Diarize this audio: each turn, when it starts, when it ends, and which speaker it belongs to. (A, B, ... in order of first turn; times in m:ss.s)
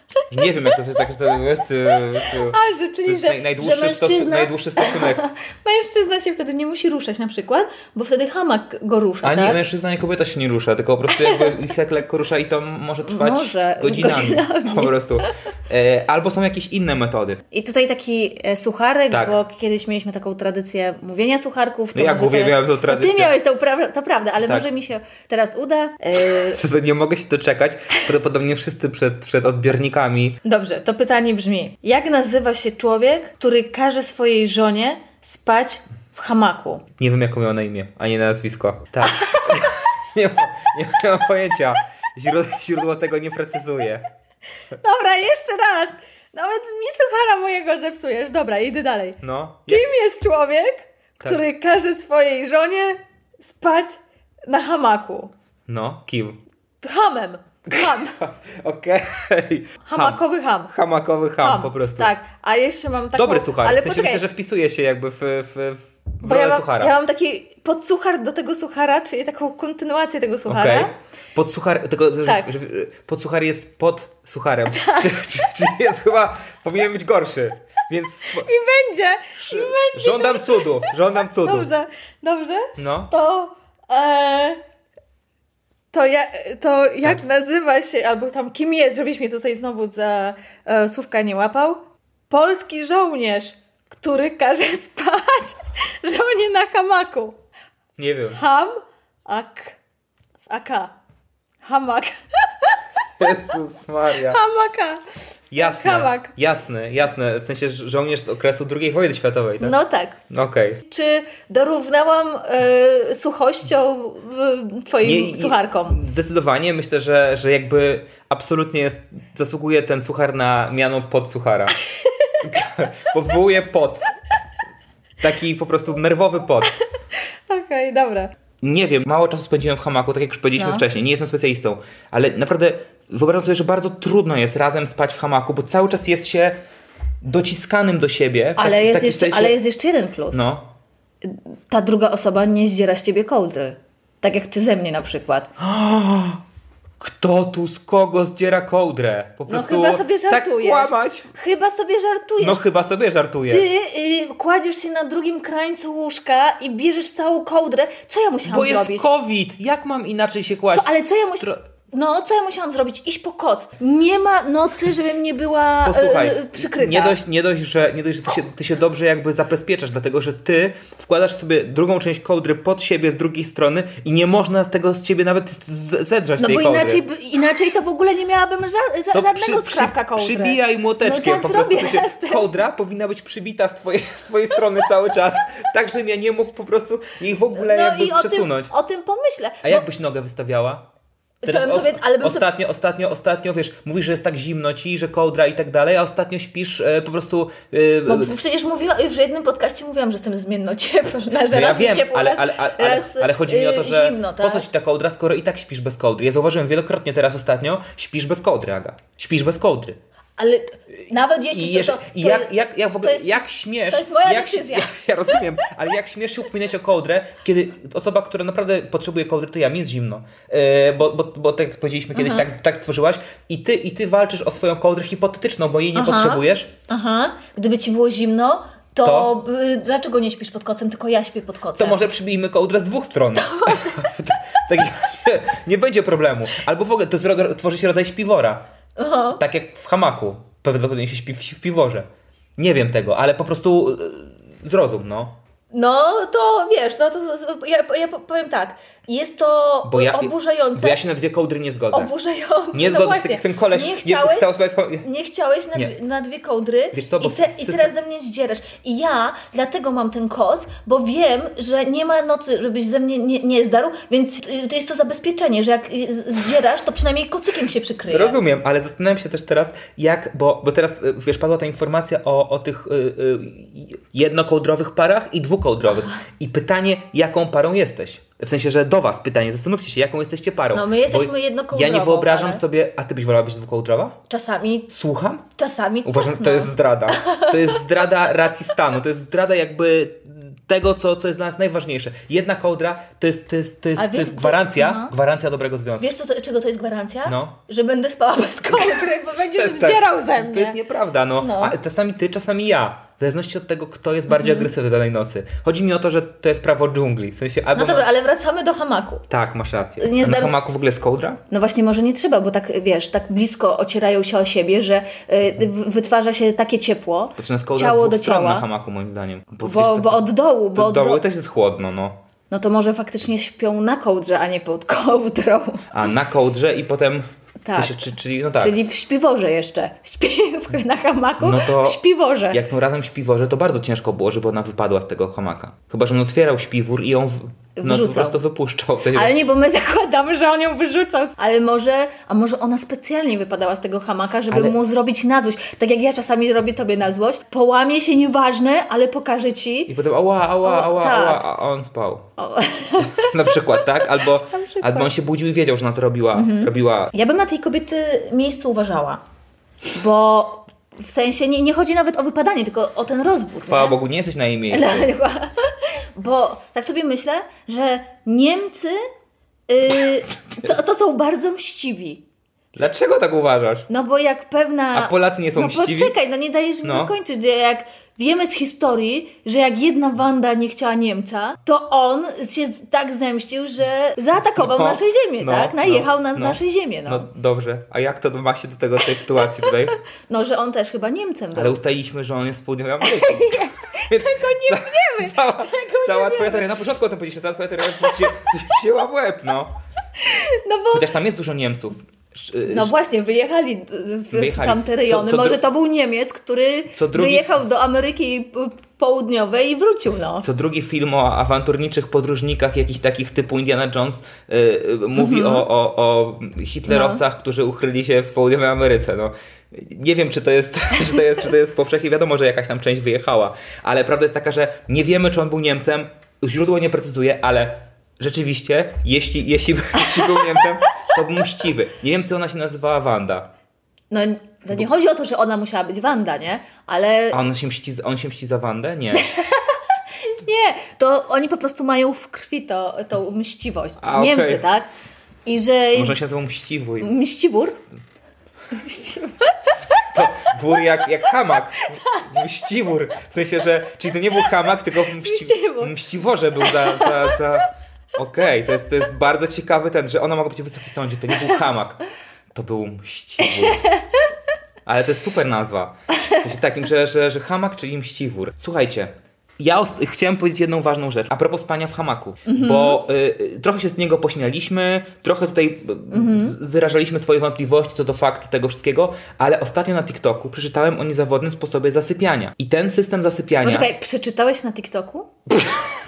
0:00.3-0:05.2 A
0:00.4-0:00.7 B
0:01.9-0:09.6 B
0:09.2-0:17.4 A
0:11.1-0:11.6 B
0:13.0-0:15.3 B
0:17.5-0:26.6 B
0:19.1-0:19.4 A
0:21.9-0:23.4 A
0:26.2-0:30.4 A
0:30.4-0:36.8 B
0:37.0-0:44.0 A
0:39.0-0:39.7 B
0:44.8-0:55.3 B
0:49.2-0:49.8 A
0:55.7-0:56.4 A
0:56.8-0:58.2 B
0:57.7-1:02.1 A
0:59.8-1:00.7 B
1:01.4-1:04.2 B
1:03.1-1:06.9 A
1:06.2-1:10.9 B
1:10.5-1:18.5 A
1:14.7-1:15.4 B
1:18.2-1:24.6 B
1:19.4-1:21.7 A
1:22.8-1:23.1 A
1:25.9-1:37.4 B
1:38.0-1:38.4 A
1:38.3-1:39.8 B
1:40.4-1:40.9 B
1:41.6-1:43.3 B
1:43.2-1:44.4 A
1:44.1-1:45.0 B
1:45.5-1:49.8 A
1:45.6-1:46.3 B
1:49.6-1:50.2 B
1:50.3-1:50.8 A
1:50.8-1:56.0 B
1:55.0-2:01.8 A
2:02.0-2:02.4 B
2:02.4-2:04.1 A
2:05.2-2:06.7 A
2:07.5-2:08.3 B
2:08.6-2:16.6 A
2:10.6-2:10.8 B
2:17.2-2:19.6 A
2:18.6-2:20.4 B
2:20.3-2:20.7 A
2:21.2-2:25.5 B
2:25.6-2:26.4 A
2:27.0-2:31.3 A
2:29.5-2:32.6 B
2:32.4-2:33.7 A
2:33.5-2:39.0 B
2:38.4-2:41.6 A
2:40.7-2:47.2 B
2:45.8-2:57.0 A
2:56.4-3:02.5 B
2:59.1-3:08.7 A
3:07.5-3:09.8 B
3:09.6-3:10.8 A
3:11.4-3:12.5 B
3:11.4-3:18.3 A
3:18.1-3:24.6 B
3:21.5-3:30.0 A
3:30.4-3:34.9 B
3:31.5-3:46.7 A
3:42.1-3:42.5 B
3:45.9-3:52.0 B
3:49.0-3:49.3 A
3:51.8-3:58.6 A
3:53.4-3:54.1 B
3:59.0-3:59.4 B
3:59.4-4:05.4 A
4:05.7-4:11.0 B
4:09.8-4:12.1 A
4:11.9-4:28.4 B
4:12.7-4:15.0 A
4:16.9-4:17.9 A
4:28.1-4:44.2 A
4:40.7-4:42.6 B
4:44.3-4:44.9 B
4:44.9-4:45.4 A
4:45.6-4:47.8 B
4:46.0-4:56.1 A
4:54.0-4:55.1 B
4:56.0-5:00.8 B
4:57.2-4:57.6 A
4:58.8-5:08.1 A
5:01.4-5:01.7 B
5:04.3-5:04.7 B
5:07.7-5:09.2 B
5:09.3-5:11.4 A
5:10.0-5:10.6 B
5:11.5-5:18.6 B
5:17.4-5:22.2 A
5:19.6-5:21.2 B
5:22.5-5:25.9 B
5:25.9-5:28.8 A
5:27.6-5:28.0 B
5:28.6-5:32.6 B
5:31.4-5:39.3 A
5:37.8-5:38.4 B
5:39.1-5:49.9 B
5:44.5-5:44.7 A
5:49.9-5:52.2 A
5:50.6-5:51.4 B
5:52.4-5:53.8 B
5:53.0-5:57.1 A
5:54.5-5:55.1 B
5:56.3-5:59.2 B
5:59.9-6:04.0 B
6:03.7-6:05.1 A
6:04.7-6:09.0 B
6:09.7-6:12.2 B
6:12.7-6:13.8 A
6:13.9-6:27.3 B
6:14.9-6:16.1 A
6:16.8-6:17.1 A
6:24.4-6:30.0 A
6:30.3-6:31.8 B
6:31.5-6:39.7 A
6:33.0-6:36.7 B
6:40.2-6:41.1 B
6:40.9-6:42.9 A
6:42.6-6:50.4 B
6:44.3-6:45.6 A
6:46.9-6:47.6 A
6:50.4-7:13.5 A
6:55.1-6:55.6 B
6:56.9-6:57.2 B
7:10.0-7:10.6 B
7:14.1-7:17.4 B
7:17.3-7:19.3 A
7:19.1-7:24.9 B
7:24.0-7:24.6 A
7:25.4-7:26.2 B
7:25.9-7:27.1 A
7:27.0-7:27.8 B
7:28.7-7:30.1 B
7:30.0-7:42.0 A
7:31.7-7:32.2 B
7:34.6-7:36.0 B
7:36.6-7:37.4 B
7:42.5-7:43.8 A
7:43.4-7:44.3 B
7:44.8-8:03.9 A
7:52.4-7:53.0 B
7:56.1-7:56.6 B
8:03.6-8:05.3 B
8:05.5-8:05.9 A